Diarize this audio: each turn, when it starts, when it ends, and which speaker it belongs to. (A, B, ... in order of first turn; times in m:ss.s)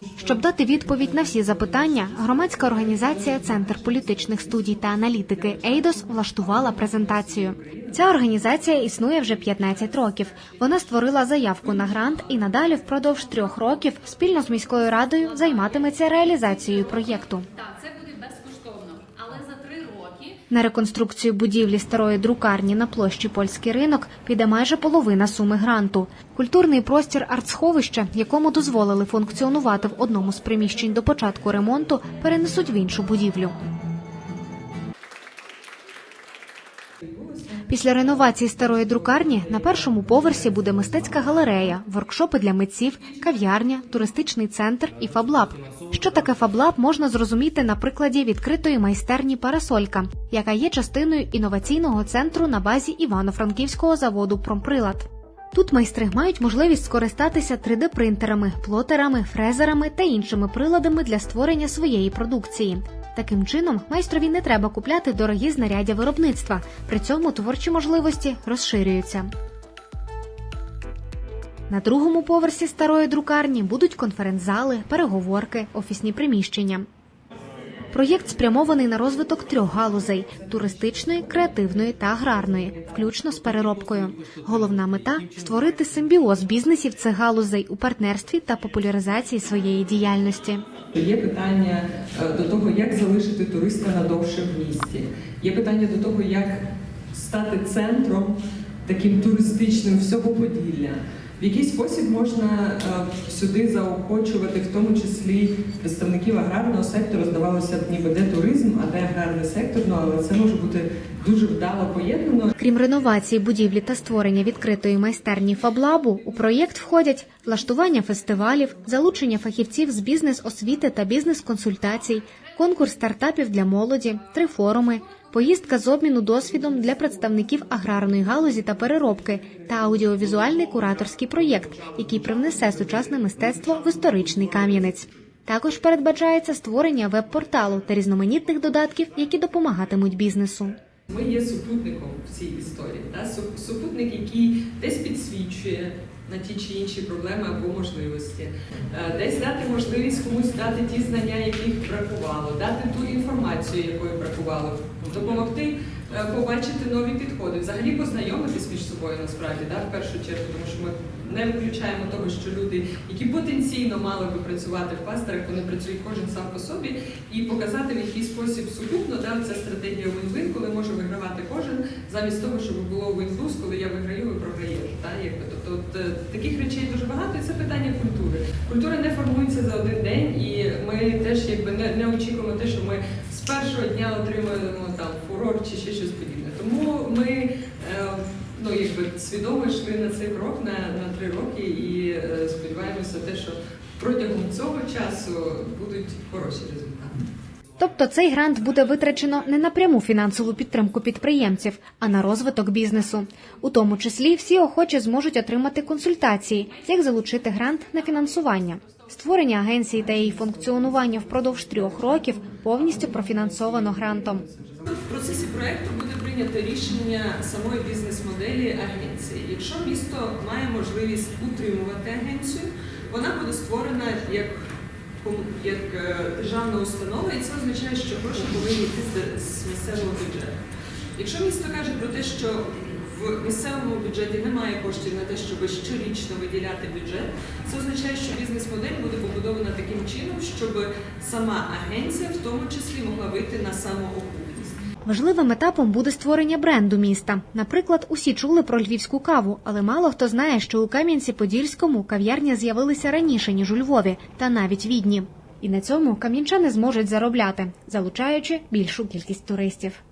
0:00.2-0:17.5 A
0:02.3-0:08.1 B
0:17.5-0:20.4 C
0:20.5-0:33.6 A
0:37.0-0:40.6 B
0:37.7-1:09.3 A
1:11.7-1:16.9 A
1:17.9-1:30.6 A
1:30.9-1:52.5 B
1:52.6-2:20.8 A
2:21.1-3:17.3 B
3:17.8-3:34.4 A
3:30.2-3:50.6 B
3:51.2-4:04.8 B
4:05.0-4:20.0 A